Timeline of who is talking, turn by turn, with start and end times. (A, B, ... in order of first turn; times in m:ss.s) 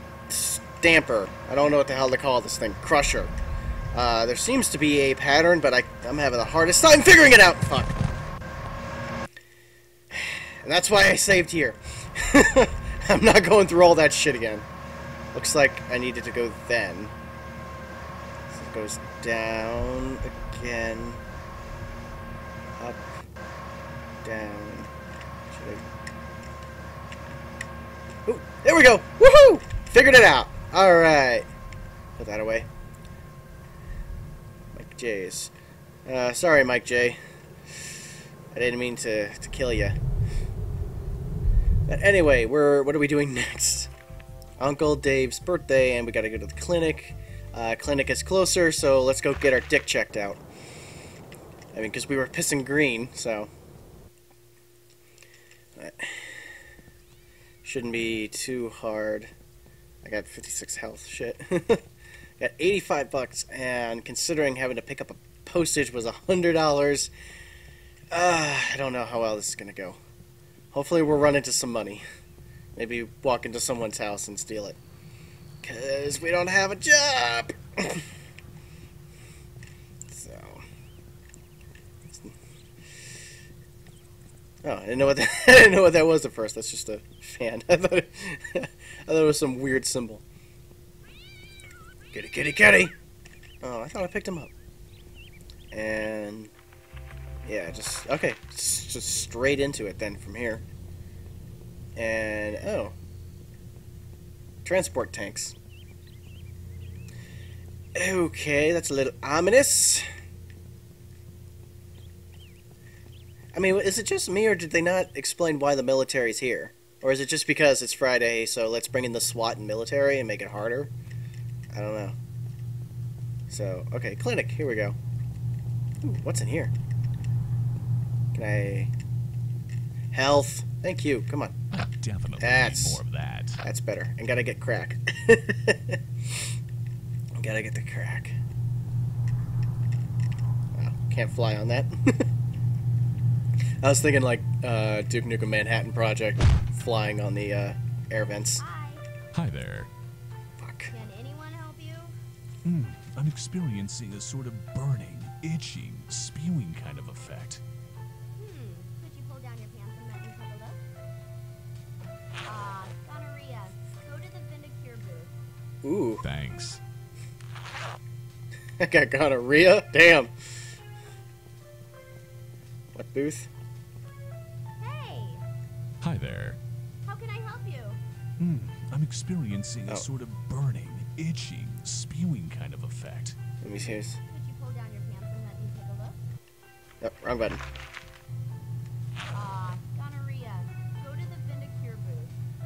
0:00.3-0:03.3 A
0:03.9-0:08.0 A
0:10.1-0:14.7 A
0:15.3-0:17.1 A
0:18.5-0:21.2 A
0:22.8-0:23.1 A
0:24.2-0:24.9 A
0:25.5-0:25.8 A
0:28.3-0:31.5 A
0:32.2-0:32.7 A
0:34.7-0:35.5 A
0:36.1-0:37.2 A
0:38.5-0:40.0 A
0:41.9-0:43.9 A
0:44.6-0:50.4 A
0:51.7-0:53.5 A
0:55.8-0:56.3 A
0:57.6-0:59.3 A
1:00.0-1:01.8 A
1:02.4-1:07.1 A
1:08.1-1:10.0 A
1:10.7-1:12.0 A
1:12.8-1:14.8 A
1:15.6-1:18.0 A
1:20.1-1:20.6 A
1:22.1-1:22.3 A
1:24.6-1:30.2 A
1:32.1-1:32.9 A
1:33.6-1:34.5 A
1:35.7-1:36.5 A
1:37.4-1:40.6 A
1:42.0-1:43.0 A
1:44.6-1:45.6 A
1:48.0-1:50.0 A
1:53.5-2:00.9 A
2:01.7-2:02.2 A
2:03.5-2:05.0 A
2:06.0-2:06.7 A
2:08.3-2:08.9 A
2:10.1-2:11.6 A
2:11.7-2:13.6 B
2:12.4-2:13.0 A
2:13.6-2:16.0 A
2:17.4-2:18.4 A
2:20.8-2:22.3 A
2:23.8-2:28.6 A
2:28.6-2:29.0 C
2:29.3-2:29.9 B
2:30.6-2:30.9 A
2:30.9-2:32.2 C
2:32.6-2:37.6 B
2:38.4-2:40.8 C
2:42.4-2:45.3 C
2:45.8-2:46.2 A
2:46.2-2:46.8 B
2:48.8-2:50.3 A
2:52.9-2:53.5 A
2:54.8-2:55.4 C
2:56.0-2:56.6 B
2:57.1-2:58.0 C
2:58.4-3:03.4 B
3:03.6-3:04.2 A
3:04.3-3:06.2 C
3:07.0-3:07.6 A
3:09.3-3:12.4 C